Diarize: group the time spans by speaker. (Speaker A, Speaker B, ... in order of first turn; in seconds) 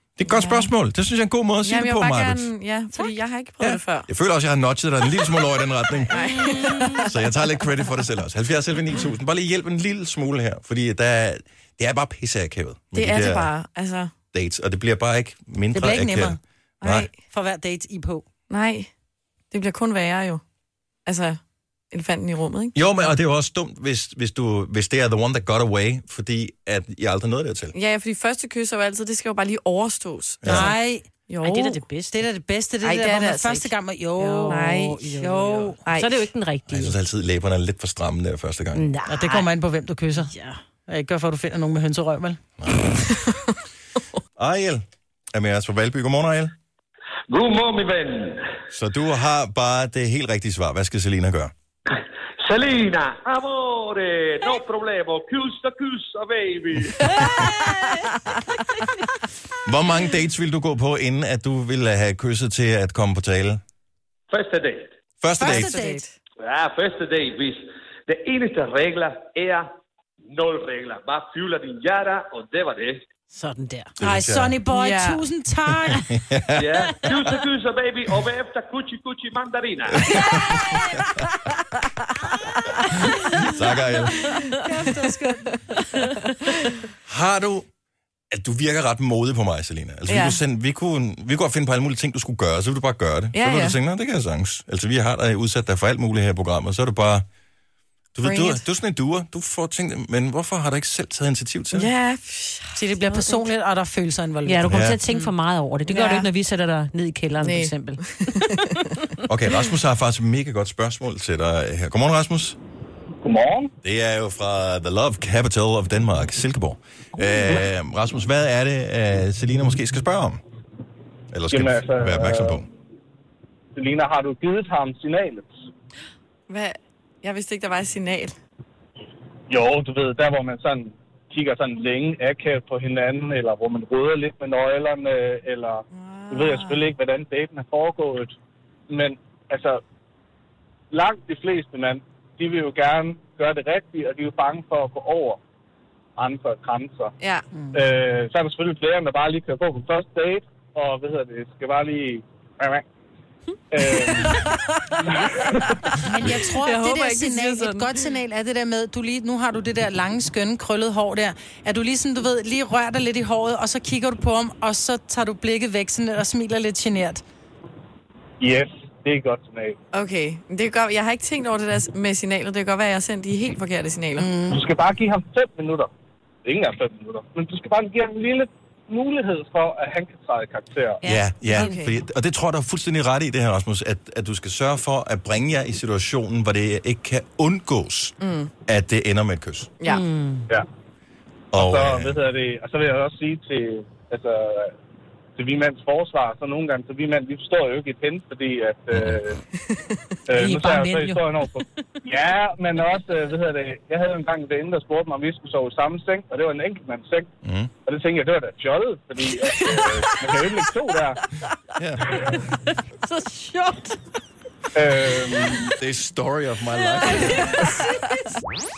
Speaker A: 0.2-2.5, 3.6-6.1, 7.0-13.5, 14.3-17.1, 22.7-27.7, 30.4-30.7, 36.7-38.9, 42.6-42.9, 44.4-46.5, 48.7-51.5, 59.6-63.6, 65.2-65.7, 74.0-74.6, 75.8-76.8, 79.9-81.0, 83.1-84.4, 87.0-87.7, 88.3-97.2, 98.1-101.9, 104.7-105.0, 109.3-112.6, 113.8-120.4, 121.3-122.7, 181.0-189.7, 191.5-192.2, 198.9-199.2, 207.4-207.7, 211.8-212.1, 215.8-217.8
Speaker B: 0.3-0.7, 1.6-4.1, 6.1-7.1, 12.9-14.1, 16.8-17.1, 18.5-18.9, 19.5-20.4, 21.1-21.4, 21.9-22.7, 27.7-30.6, 31.3-31.8, 32.8-33.7, 34.5-35.2, 35.8-36.3, 65.4-66.2, 74.7-75.2, 90.1-90.4, 93.3-93.8, 98.2-98.6, 101.7-102.8, 105.8-106.3, 107.4-108.6, 126.5-128.3, 135.9-136.8, 147.2-147.5, 154.0-154.4, 155.5-156.0, 156.5-158.1, 169.9-174.3, 181.5-181.9, 188.2-188.5
Speaker C: 6.2-6.9, 31.4-32.2, 34.2-37.0, 38.7-39.5, 40.1-40.6, 73.3-73.9, 104.4-108.6, 181.2-181.7, 189.8-190.5, 213.1-213.9
Speaker D: 15.7-16.4, 17.3-18.2, 30.4-31.1, 32.1-35.8, 39.0-40.3, 40.9-42.4, 65.4-66.0, 74.0-76.0, 84.6-85.6, 102.8-105.3, 156.0-167.2, 174.2-174.6, 200.4-201.2
Speaker E: 47.3-48.4, 51.9-57.7, 64.3-64.9, 66.4-69.7, 70.3-73.0, 76.5-80.4
Speaker F: 113.2-113.7, 121.5-122.6, 123.8-125.5, 129.5-138.3, 138.9-139.8, 140.9-145.4, 146.2-147.1, 147.7-152.8, 153.7-154.5, 155.0-155.7, 168.4-169.8, 174.5-175.9, 176.4-181.0, 191.5-194.7, 195.4-199.4, 200.3-207.3, 207.8-211.2, 214.7-215.7